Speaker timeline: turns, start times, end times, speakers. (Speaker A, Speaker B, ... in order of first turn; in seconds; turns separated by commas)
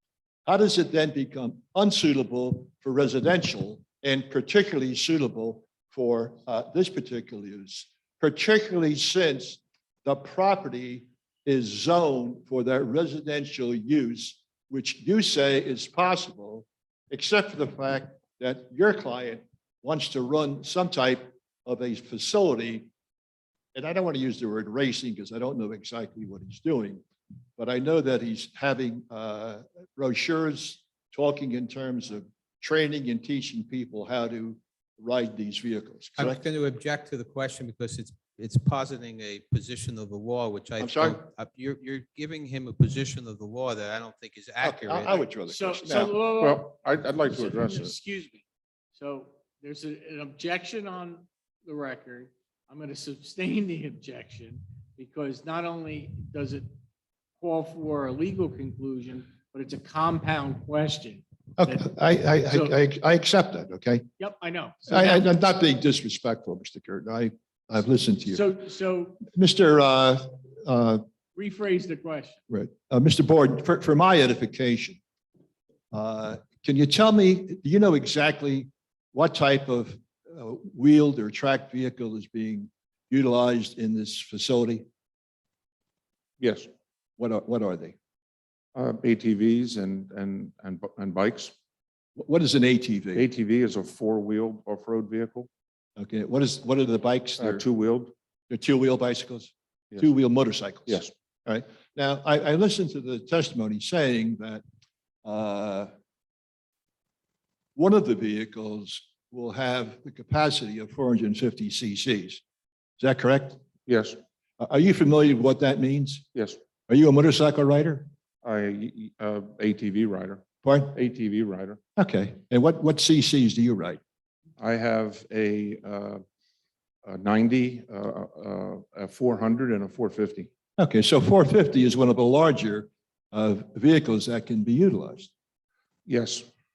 Speaker A: 0.5-22.9, Speaker A: 23.7-27.0, Speaker A: 27.6-36.4, Speaker B: 36.1-45.4, Speaker A: 40.8-41.2, Speaker A: 44.6-46.1, Speaker C: 45.5-48.4, Speaker D: 46.4-47.9, Speaker C: 49.0-56.7, Speaker C: 57.4-61.9, Speaker A: 61.6-64.1, Speaker C: 62.4-62.7, Speaker C: 64.2-65.2, Speaker A: 64.9-68.6, Speaker C: 68.3-69.2, Speaker A: 69.2-71.0, Speaker C: 71.3-72.4, Speaker A: 72.5-75.0, Speaker A: 75.9-84.8, Speaker D: 86.4-86.7, Speaker A: 87.2-88.0, Speaker D: 88.7-91.5, Speaker A: 92.2-93.2, Speaker D: 93.1-95.5, Speaker A: 96.0-97.6, Speaker D: 97.4-98.1, Speaker A: 98.5-104.6, Speaker A: 105.2-105.9, Speaker A: 107.8-112.4, Speaker A: 113.0-113.6, Speaker D: 113.9-114.2, Speaker A: 114.6-116.2, Speaker A: 116.9-118.1, Speaker D: 118.4-121.8, Speaker A: 120.6-120.9, Speaker A: 122.0-124.0, Speaker D: 124.6-126.2, Speaker D: 127.0-130.5, Speaker A: 130.8-135.3, Speaker D: 136.1-136.5